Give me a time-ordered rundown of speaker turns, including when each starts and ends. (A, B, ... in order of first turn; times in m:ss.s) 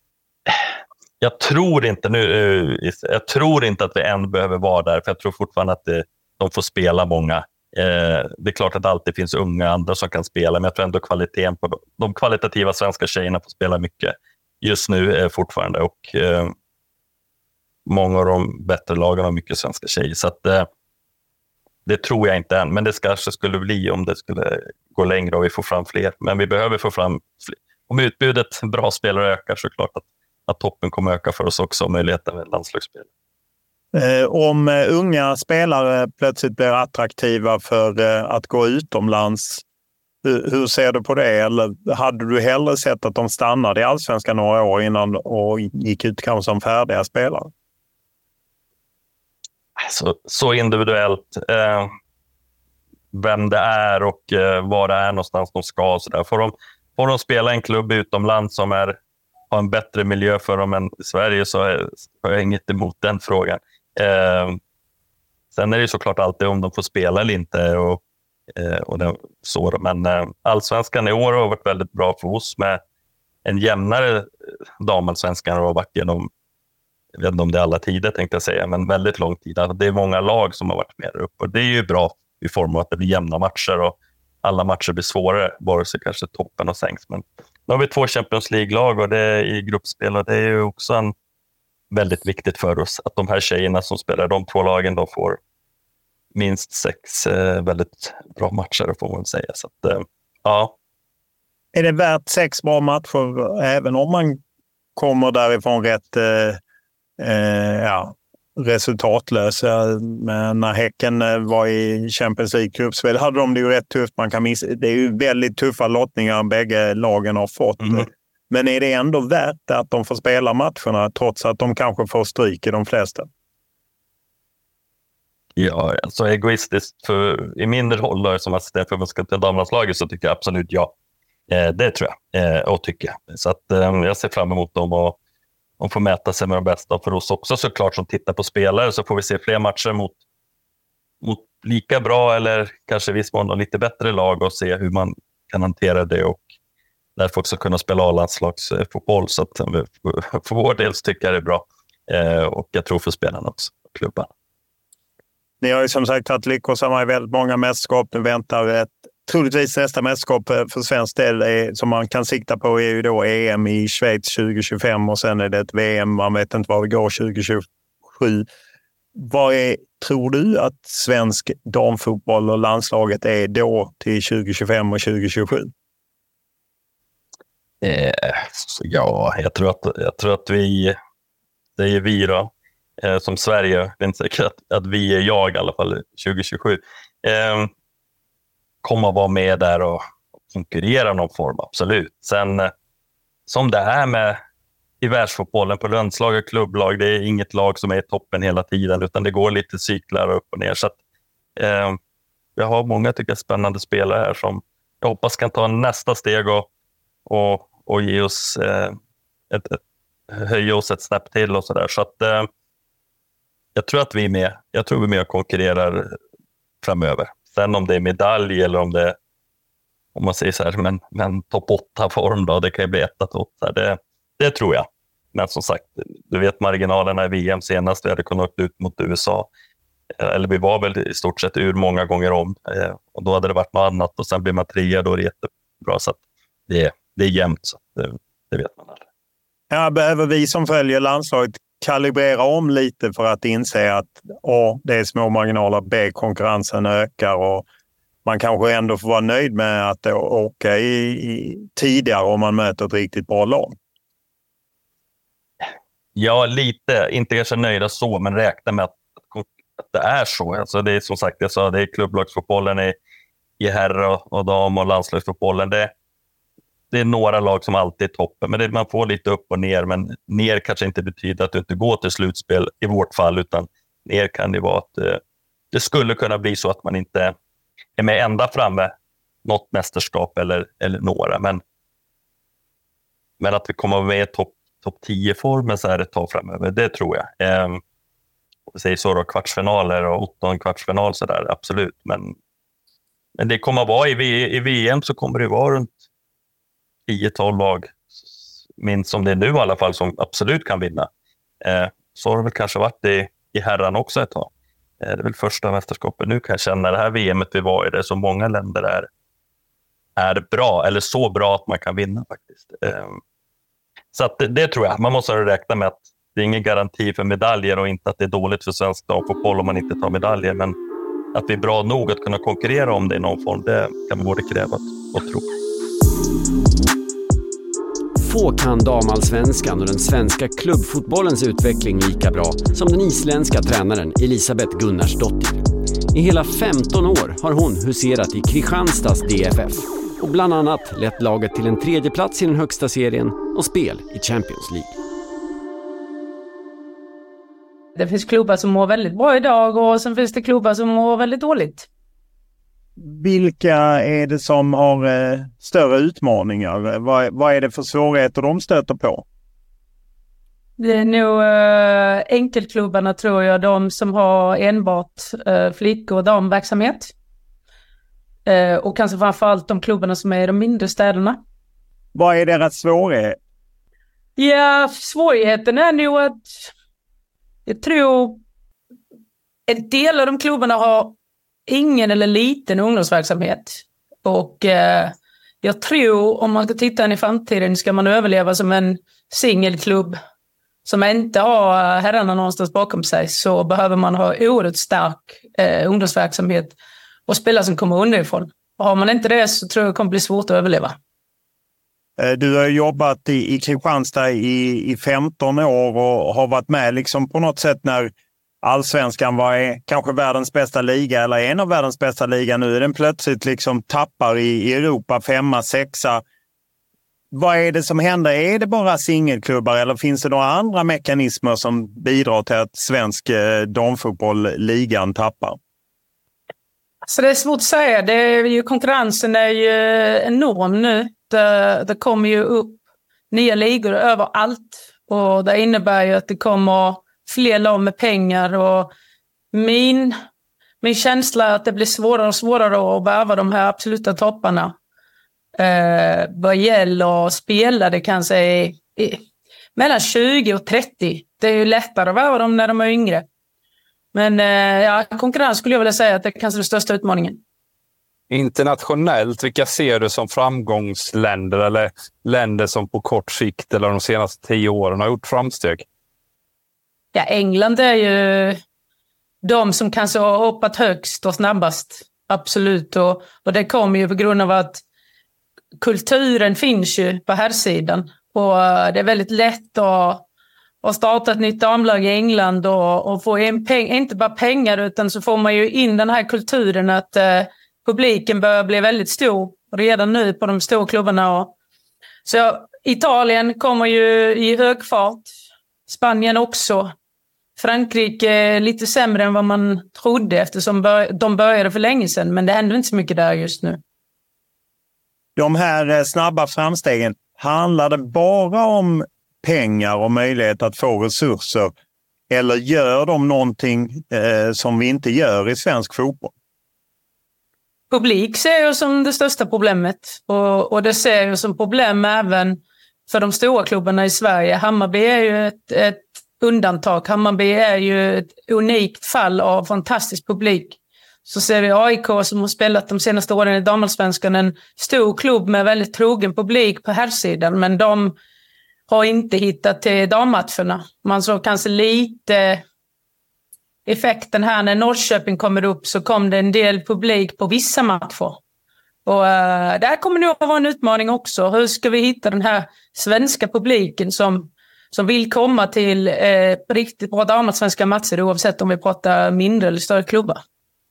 0:01.2-0:16.5 A
0:17.8-0:20.7 A
0:21.8-0:33.1 A
0:33.9-0:39.6 B
0:40.2-0:47.5 B
0:49.8-0:51.9 A
0:53.1-0:59.0 A
0:59.5-1:04.6 A
1:05.5-1:08.0 A
1:08.5-1:12.8 A
1:13.4-1:14.3 A
1:14.8-1:16.3 A
1:17.1-1:31.1 A
1:31.9-1:35.4 A
1:36.3-1:40.7 A
1:41.7-1:44.4 B
1:45.0-1:46.6 B
1:47.2-2:03.3 B
2:05.6-2:10.9 A
2:11.5-2:15.2 A
2:15.8-2:20.2 A
2:21.2-2:26.4 A
2:27.2-2:34.3 A
2:35.6-2:48.5 B
2:49.2-2:55.7 B
2:57.8-3:01.0 A
3:01.8-3:07.7 A
3:08.8-3:12.7 A
3:13.5-3:14.4 A
3:15.0-3:21.0 A
3:21.6-3:22.0 A
3:22.6-3:26.7 A
3:27.2-3:29.0 A
3:29.5-3:29.8 A
3:30.3-3:32.5 A
3:33.8-3:36.2 A
3:36.8-3:39.2 A
3:40.1-3:49.5 A
3:50.2-3:59.0 A
3:59.7-4:07.6 B
4:08.2-4:13.7 B
4:16.1-4:23.0 A
4:23.6-4:25.9 A
4:26.9-4:35.2 A
4:35.7-4:37.3 A
4:38.0-4:38.9 A
4:39.4-4:41.6 A
4:43.4-4:47.8 A
4:48.7-4:52.3 A
4:53.4-4:56.0 A
4:57.1-4:57.9 A
4:58.8-5:01.1 A
5:01.6-5:04.5 A
5:05.0-5:09.1 A
5:10.2-5:13.2 A
5:14.1-5:20.8 A
5:21.3-5:25.4 A
5:28.2-5:44.9 C
5:48.0-5:51.8 D
5:53.0-5:59.2 B
6:00.8-6:07.1 D
6:08.4-6:11.4 D
6:12.1-6:13.4 B
6:14.4-6:16.7 D
6:17.7-6:18.4 D
6:19.7-6:21.2 D
6:21.7-6:30.2 D
6:30.8-6:36.7 D
6:37.3-6:41.0 D
6:42.2-6:48.1 B
6:48.6-6:56.2 B
6:57.3-7:05.6 B
7:07.0-7:12.8 D
7:13.3-7:18.9 D
7:19.5-7:20.2 D
7:20.8-7:24.7 D
7:25.6-7:29.2 D
7:29.8-7:33.2 D
7:34.1-7:37.4 D
7:38.3-7:45.8 E
7:47.1-7:48.6 D
7:49.4-7:54.8 D
7:55.8-8:00.2 D
8:00.8-8:11.5 D
8:12.2-8:15.3 D
8:15.9-8:16.9 D
8:17.6-8:23.8 D
8:25.4-8:31.7 B
8:32.3-8:36.3 B
8:37.9-8:58.1 D
8:58.9-9:02.6 D
9:03.8-9:08.4 D
9:09.0-9:20.4 D